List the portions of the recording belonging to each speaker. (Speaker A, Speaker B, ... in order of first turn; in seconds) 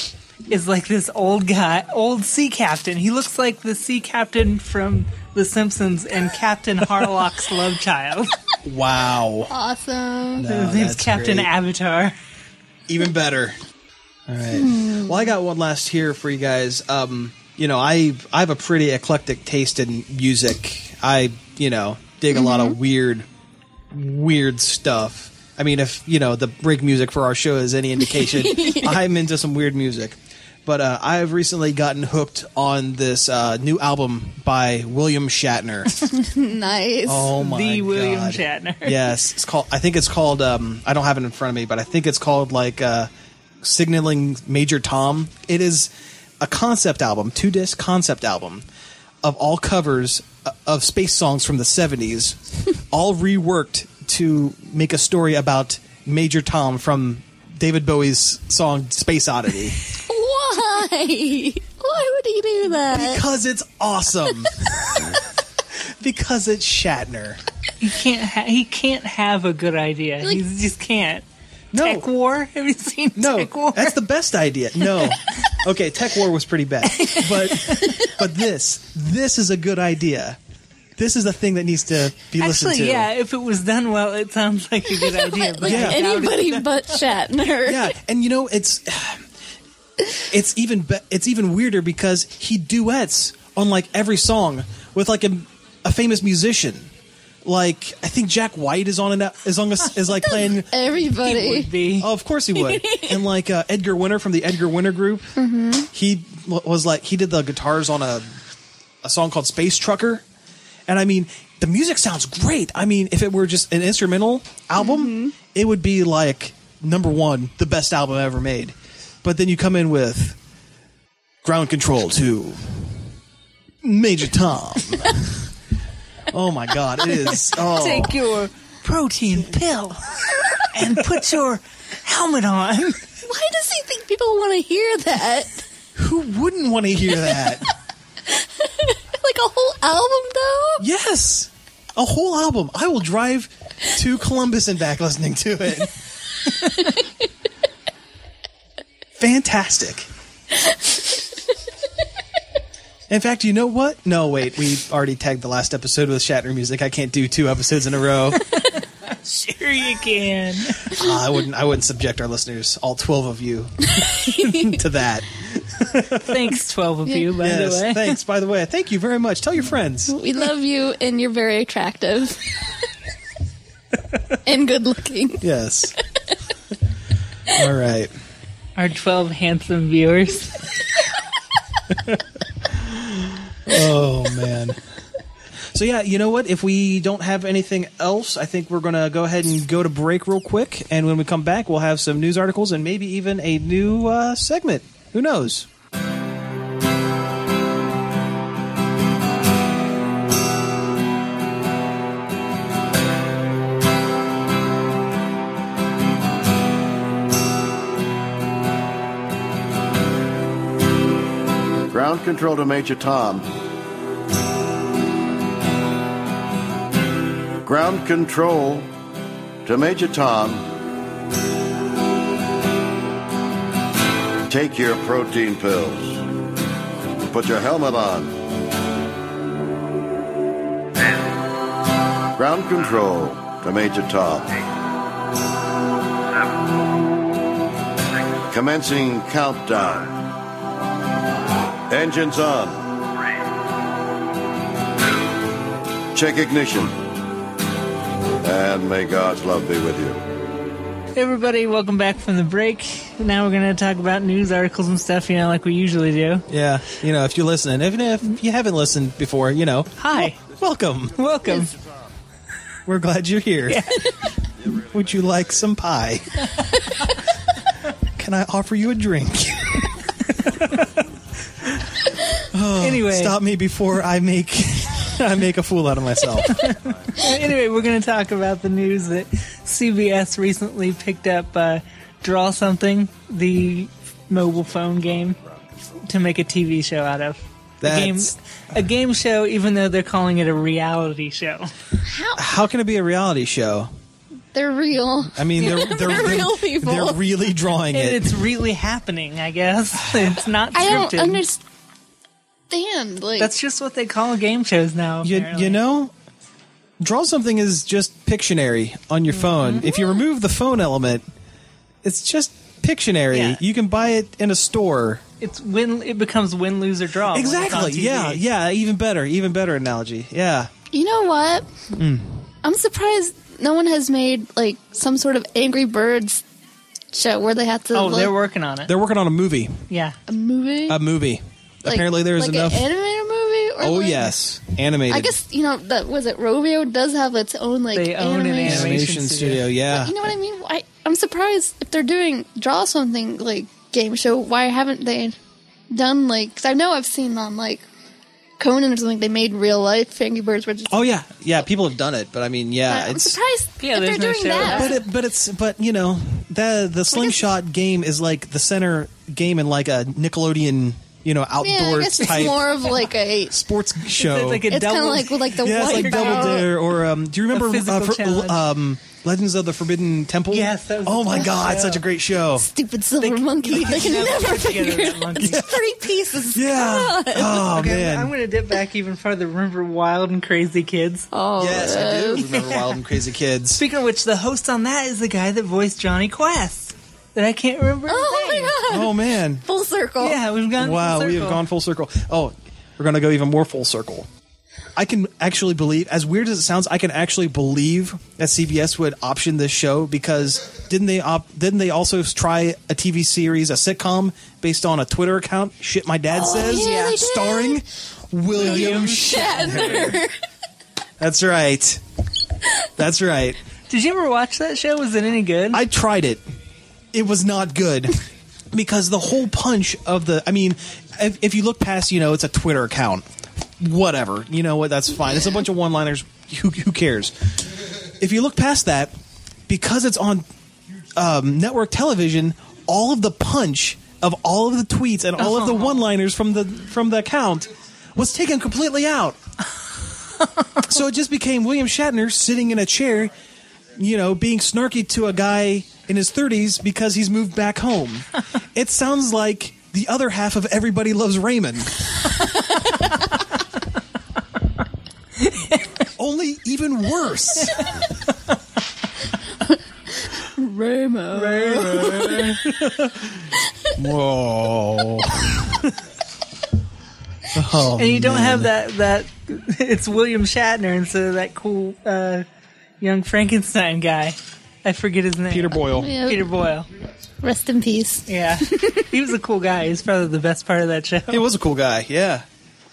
Speaker A: 0.5-8.4, 10.5-12.1, 37.4-39.1, 67.8-74.0, 76.8-78.0, 82.4-87.0, 101.1-102.1, 127.3-133.0, 158.5-161.0, 166.2-168.1, 178.8-180.7, 251.2-256.5, 260.0-260.4, 261.1-261.7, 263.7-264.3, 272.8-273.4, 276.5-285.4, 286.0-291.7, 297.9-301.4, 303.4-305.8, 309.5-309.8, 313.3-313.6, 315.4-318.4, 327.9-328.9, 329.9-330.2, 337.9-339.7, 353.8-355.0, 364.1-366.6, 367.5-368.6, 370.5-372.0, 373.2-375.8, 377.4-381.3, 382.4-383.0, 383.8-388.8, 390.2-391.6, 406.6-407.2, 408.6-410.1, 413.9-415.8, 435.4-436.0, 440.4-440.9, 461.3-462.6, 467.9-472.4, 473.0-476.9, 478.3-481.4
Speaker B: 8.6-9.5, 10.3-11.5, 12.9-13.6, 14.3-23.3, 23.9-36.1, 37.0-43.1, 43.6-48.6, 49.2-59.8, 62.9-64.6, 65.7-67.4, 71.7-72.0, 73.2-80.4, 81.0-83.1, 85.6-86.0, 87.6-89.2, 90.3-96.9, 97.4-100.7, 102.0-105.4, 105.9-108.3, 109.0-110.2, 110.9-120.4, 121.4-123.1, 123.8-125.5, 126.3-128.2, 135.9-137.7, 140.8-145.9, 149.2-150.1, 153.1-158.4, 160.9-166.5, 167.4-170.1, 175.4-175.9, 177.5-178.1, 182.7-184.8, 185.7-195.7, 256.5-261.2, 262.9-263.9, 264.8-266.4, 268.1-271.0, 271.6-272.0, 272.5-276.6, 287.8-288.3, 292.4-293.9, 295.3-298.3, 305.2-306.1, 307.0-311.2, 312.0-315.2, 317.3-320.7, 321.9-322.4, 328.9-329.8, 330.9-332.9, 333.8-335.3, 338.6-340.1, 350.9-353.4, 354.6-364.7, 365.6-372.7, 375.4-378.3, 381.6-383.8, 388.9-389.6, 390.8-394.3, 394.9-410.2, 411.2-412.0, 413.0-413.6, 415.7-416.4, 417.1-423.2, 423.8-429.1, 429.7-430.4, 431.1-439.4, 440.8-443.3, 443.9-452.0, 456.1-458.0, 461.7-463.3, 463.9-465.9, 467.5-468.7, 475.5-476.1, 481.3-482.4
Speaker C: 9.5-10.4, 14.5-15.2, 22.3-22.8, 28.1-29.0, 36.1-37.3, 59.9-63.2, 77.8-78.1, 85.0-88.0, 100.4-101.7, 102.5-103.2, 105.4-105.9, 114.8-115.3, 133.2-135.6, 138.3-140.8, 163.9-164.8, 170.1-172.5, 174.4-175.4, 292.0-292.4, 294.5-297.2, 300.7-301.6, 302.7-303.5, 309.8-310.2, 320.9-321.7, 322.6-326.4, 327.1-328.3, 330.3-331.0, 331.8-334.3, 335.1-339.0, 339.9-345.4, 345.9-347.8, 348.6-351.0, 352.9-354.9, 357.1-357.4, 361.6-363.6, 364.7-366.7, 372.5-377.6, 381.3-382.4, 388.1-390.4, 406.3-407.8, 408.6-410.3, 460.4-462.5, 476.0-476.4, 477.4-479.1
Speaker D: 211.9-213.5, 217.6-218.9, 219.6-220.7, 224.5-226.3, 227.3-228.4, 232.3-234.6, 238.4-240.3, 241.9-243.0, 246.1-247.0, 248.4-250.2